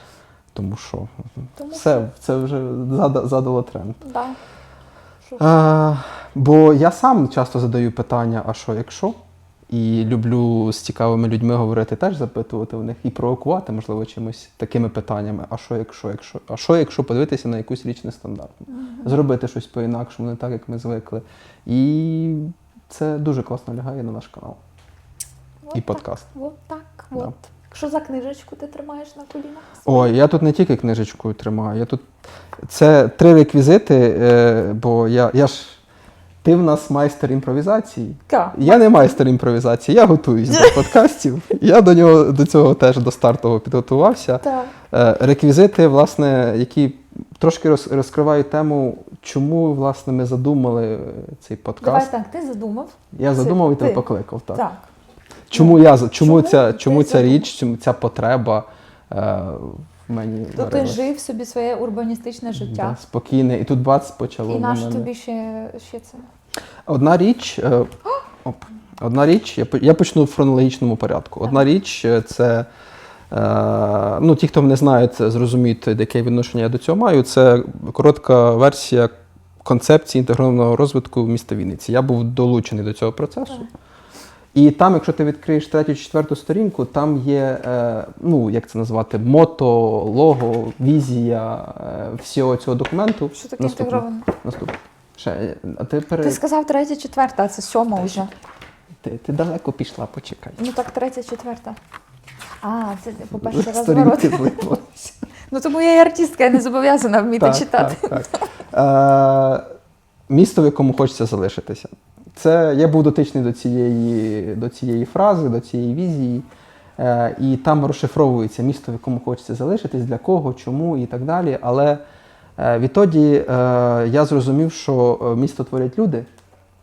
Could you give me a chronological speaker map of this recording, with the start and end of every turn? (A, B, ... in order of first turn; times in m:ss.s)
0:00.5-0:04.0 A
0:01.6-0:02.1 B
0:04.0-0:04.4 B
0:05.4-0:09.2 A
0:09.7-0:24.6 A
0:18.7-0:19.2 B
0:25.7-0:30.1 B
0:25.7-0:26.3 A
0:29.8-0:32.0 A
0:32.7-0:35.8 A
0:36.4-0:52.1 A
0:38.3-0:39.2 B
0:44.4-0:44.7 B
0:51.8-0:54.9 B
0:53.1-0:54.6 A
0:55.5-1:01.1 A
0:55.5-0:57.4 B
1:00.6-1:03.0 B
1:02.5-1:05.1 A
1:04.5-1:06.3 B
1:06.9-1:12.7 A
1:13.3-1:19.1 A
1:19.6-1:23.7 A
1:24.5-1:36.4 A
1:33.3-1:34.3 B
1:36.2-1:38.3 B
1:39.0-1:40.6 A
1:40.6-1:41.8 B
1:42.6-1:44.8 B
1:43.4-1:45.1 A
1:45.5-1:48.5 B
1:47.4-1:49.6 A
1:50.3-1:56.4 A
1:57.0-2:02.0 A
2:02.6-2:06.3 A